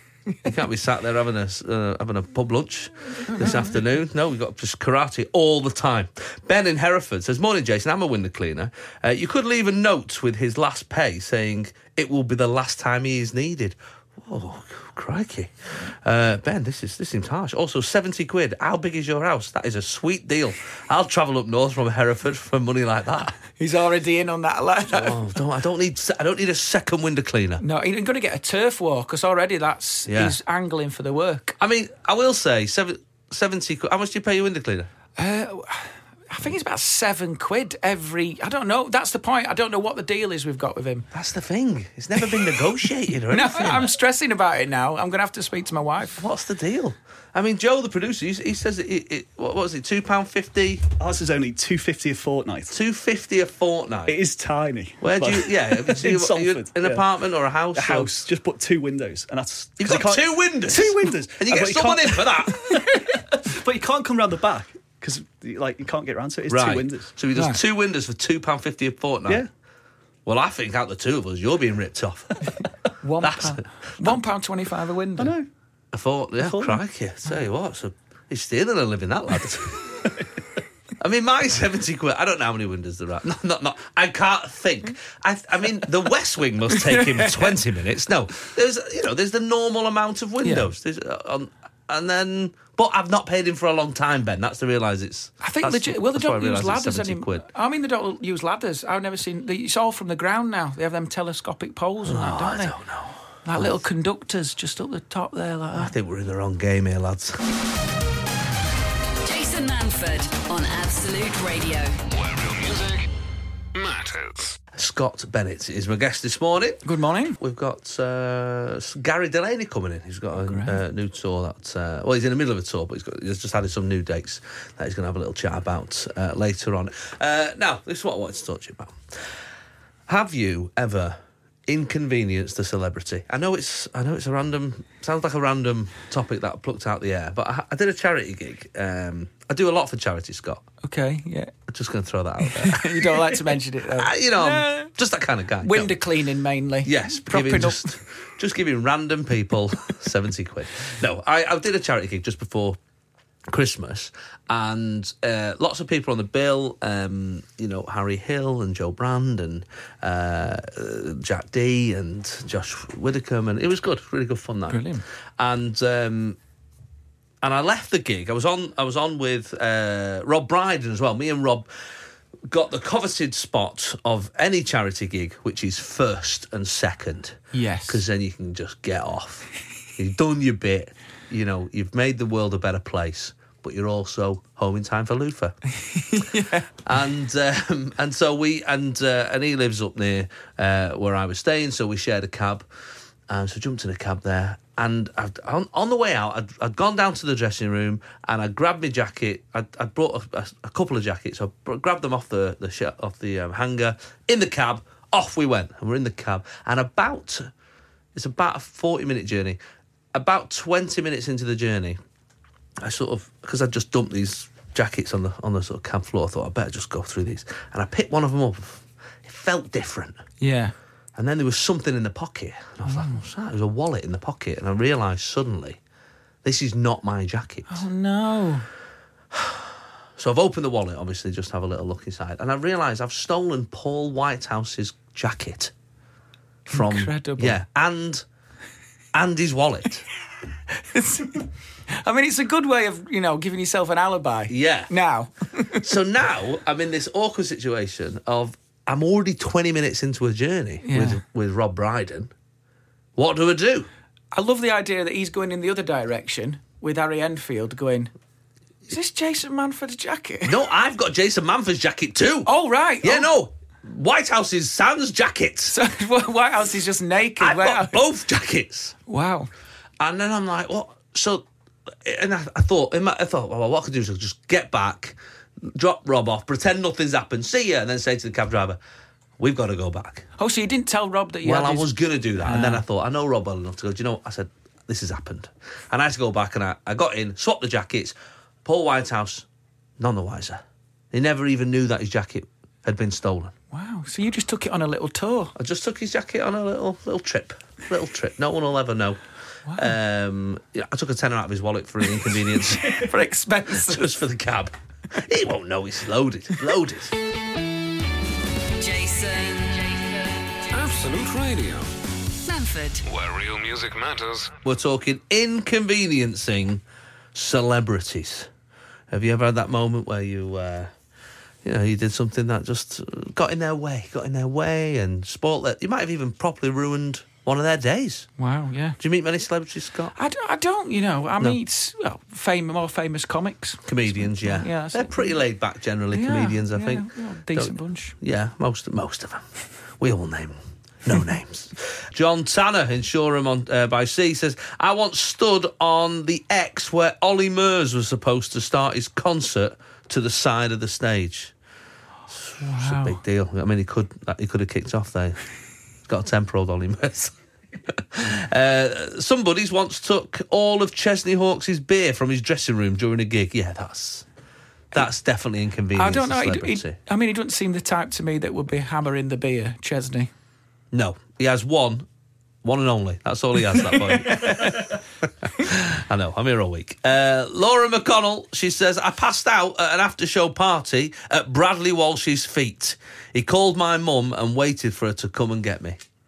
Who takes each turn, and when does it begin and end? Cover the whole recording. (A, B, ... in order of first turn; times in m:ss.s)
0:00.4-0:23.4 A
0:03.3-0:03.8 B
0:23.6-0:25.2 B
0:24.9-0:27.6 A
0:27.6-0:31.6 B
0:30.1-0:30.4 A
0:31.6-0:34.9 A
0:35.2-0:41.1 B
0:41.1-0:43.9 A
0:43.3-0:46.2 B
0:46.1-0:50.9 A
0:51.0-0:52.8 C
0:52.7-0:54.2 A
0:54.1-0:57.1 C
0:55.0-0:58.3 A
0:57.7-1:07.1 C
0:59.8-1:02.8 A
1:06.5-1:09.5 A
1:07.3-1:07.6 B
1:10.2-1:12.6 A
1:13.0-1:15.3 B
1:13.2-1:14.2 A
1:15.2-1:15.5 C
1:15.9-1:20.1 A
1:16.4-1:16.8 C
1:21.0-1:37.4 A
1:26.9-1:27.4 B
1:30.4-1:30.7 B
1:35.4-1:42.8 B
1:42.0-1:43.8 A
1:43.4-1:45.9 B
1:45.7-1:47.4 A
1:49.2-1:52.0 D
1:52.1-1:53.1 E
1:53.7-1:54.6 E
1:54.7-1:56.8 A
1:56.8-1:57.4 B
1:57.4-2:09.0 A
2:00.4-2:00.8 B
2:10.1-2:20.6 A
2:20.8-2:21.5 B
2:21.7-2:25.9 A
2:22.5-2:24.9 B
2:25.6-2:27.9 B
2:26.8-2:32.8 A
2:33.5-2:46.4 A
2:44.7-2:45.0 B
2:47.4-2:51.7 A
2:52.5-3:05.6 A
2:57.5-2:58.0 B
3:05.8-3:06.7 B
3:06.8-3:12.7 A
3:13.3-3:27.5 A
3:28.2-3:29.6 A
3:30.1-3:32.0 A
3:32.8-3:40.2 A
3:40.4-3:40.7 B
3:41.2-3:45.8 A
3:42.8-3:43.2 B
3:46.4-3:47.9 A
3:47.7-3:48.7 B
3:49.3-3:55.7 A
3:56.7-3:57.6 B
3:56.7-3:58.2 A
3:59.1-4:00.0 A
4:00.7-4:05.9 B
4:04.5-4:04.9 A
4:05.8-4:12.3 A
4:10.8-4:11.2 B
4:13.2-4:13.9 A
4:14.3-4:18.1 B
4:18.9-4:20.6 B
4:20.4-4:22.5 A
4:22.5-4:23.3 B
4:23.0-4:25.7 A
4:25.7-4:28.0 B
4:27.4-4:29.0 A
4:29.1-4:29.5 B
4:30.0-4:31.5 A
4:32.0-4:38.8 A
4:39.4-4:40.3 A
4:40.4-4:42.8 B
4:41.4-4:49.5 A
4:50.0-4:53.5 A
4:53.7-4:55.5 B
4:55.6-4:59.2 A
4:59.7-4:59.9 B
4:59.8-5:03.1 A
5:02.8-5:04.1 B
5:03.7-5:07.2 A
5:08.8-5:10.6 D
5:10.7-5:11.9 E
5:12.4-5:13.0 D
5:13.0-5:14.6 E
5:14.6-5:16.8 A
5:17.3-5:18.5 A
5:19.1-5:20.9 A
5:21.6-5:28.3 A
5:28.4-5:29.0 B
5:29.0-5:30.1 A
5:30.1-5:35.4 B
5:33.8-5:39.4 A
5:36.1-5:38.2 B
5:40.0-5:51.5 A
5:52.3-5:55.4 A
5:52.5-5:53.2 B
5:56.1-5:57.4 A
5:57.9-6:04.3 A
6:04.9-6:07.0 A
6:06.0-6:10.3 B
6:10.9-6:12.1 A
6:12.6-6:26.0 A
6:13.9-6:14.9 B